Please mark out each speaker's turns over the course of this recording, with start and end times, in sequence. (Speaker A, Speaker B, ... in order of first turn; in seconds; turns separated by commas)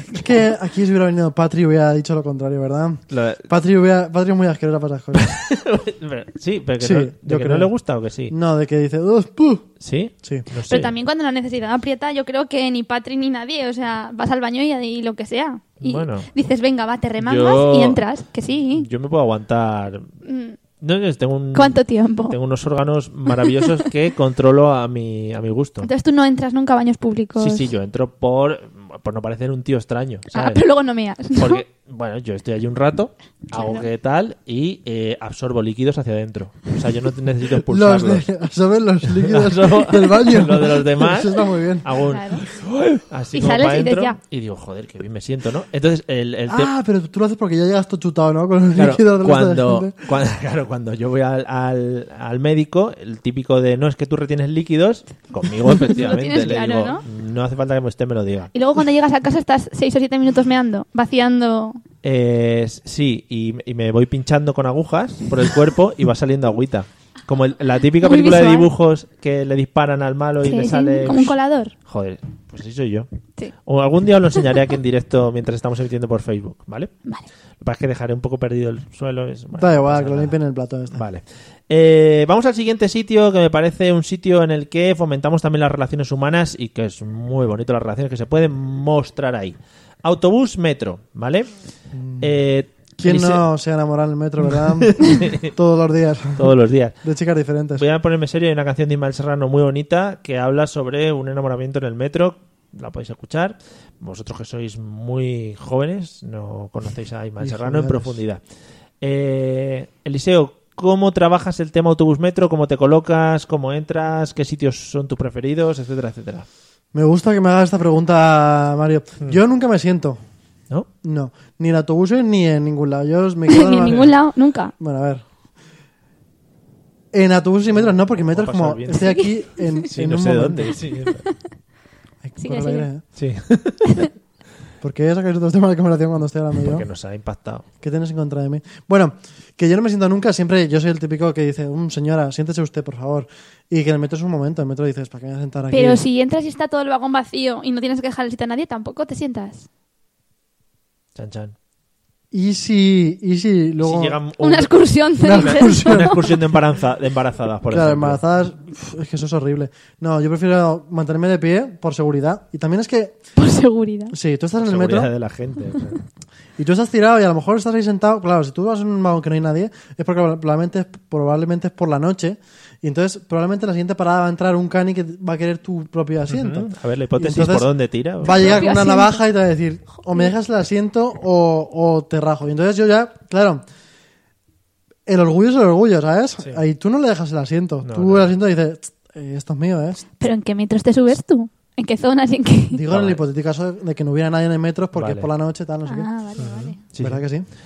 Speaker A: 0.1-5.3, Speaker B: 3.1-3.5, Speaker B: 5.2-8.3, Speaker A: 6.8-7.7, Speaker A: 8.3-9.7, Speaker B: 9.8-10.9, Speaker C: 10.7-18.9, Speaker B: 15.8-16.3, Speaker B: 17.2-18.0, Speaker B: 18.8-20.1, Speaker C: 20.2-20.6, Speaker B: 20.8-25.9, Speaker C: 21.5-22.4, Speaker C: 25.8-27.7, Speaker B: 27.4-30.6, Speaker C: 30.3-31.6, Speaker B: 31.4-38.2, Speaker C: 33.5-33.9, Speaker A: 37.7-41.9, Speaker B: 39.1-46.7, Speaker C: 42.0-42.4, Speaker C: 43.3-44.2, Speaker A: 46.5-49.9, Speaker B: 48.8-58.5, Speaker C: 55.8-57.0, Speaker C: 58.5-61.8, Speaker B: 62.0-73.1, Speaker C: 68.0-68.7, Speaker C: 70.5-71.7, Speaker B: 73.7-76.9, Speaker B: 77.6-80.3, Speaker A: 79.6-81.0, Speaker B: 80.9-91.5, Speaker A: 91.9-92.3, Speaker B: 92.2-93.4, Speaker A: 93.0-97.8, Speaker B: 94.5-95.5, Speaker B: 96.4-97.0, Speaker B: 97.8-108.4, Speaker A: 107.4-108.2, Speaker B: 109.0-116.5, Speaker A: 116.9-120.2, Speaker A: 121.0-124.2, Speaker C: 123.5-124.7, Speaker A: 124.8-125.2, Speaker A: 127.1-130.8, Speaker B: 127.7-129.1, Speaker C: 128.9-129.9, Speaker B: 129.9-131.2, Speaker A: 132.2-133.0, Speaker C: 132.4-132.9, Speaker B: 133.2-134.1, Speaker A: 134.8-136.9, Speaker B: 136.6-137.7, Speaker A: 137.8-146.0, Speaker C: 145.7-149.7, Speaker B: 151.2-151.6, Speaker A: 152.3-154.2, Speaker B: 153.8-158.2, Speaker C: 154.4-156.2, Speaker A: 155.2-156.2, Speaker A: 157.7-163.2, Speaker C: 163.4-164.2, Speaker A: 164.1-165.1, Speaker B: 164.6-166.0, Speaker A: 166.6-183.6, Speaker B: 176.3-178.7, Speaker C: 178.2-179.2, Speaker A: 185.1-190.1, Speaker B: 187.8-188.3, Speaker C: 190.2-192.8, Speaker A: 192.7-196.1, Speaker B: 192.9-193.2, Speaker B: 194.9-195.3, Speaker C: 195.9-196.8, Speaker B: 196.4-197.2, Speaker A: 197.0-197.5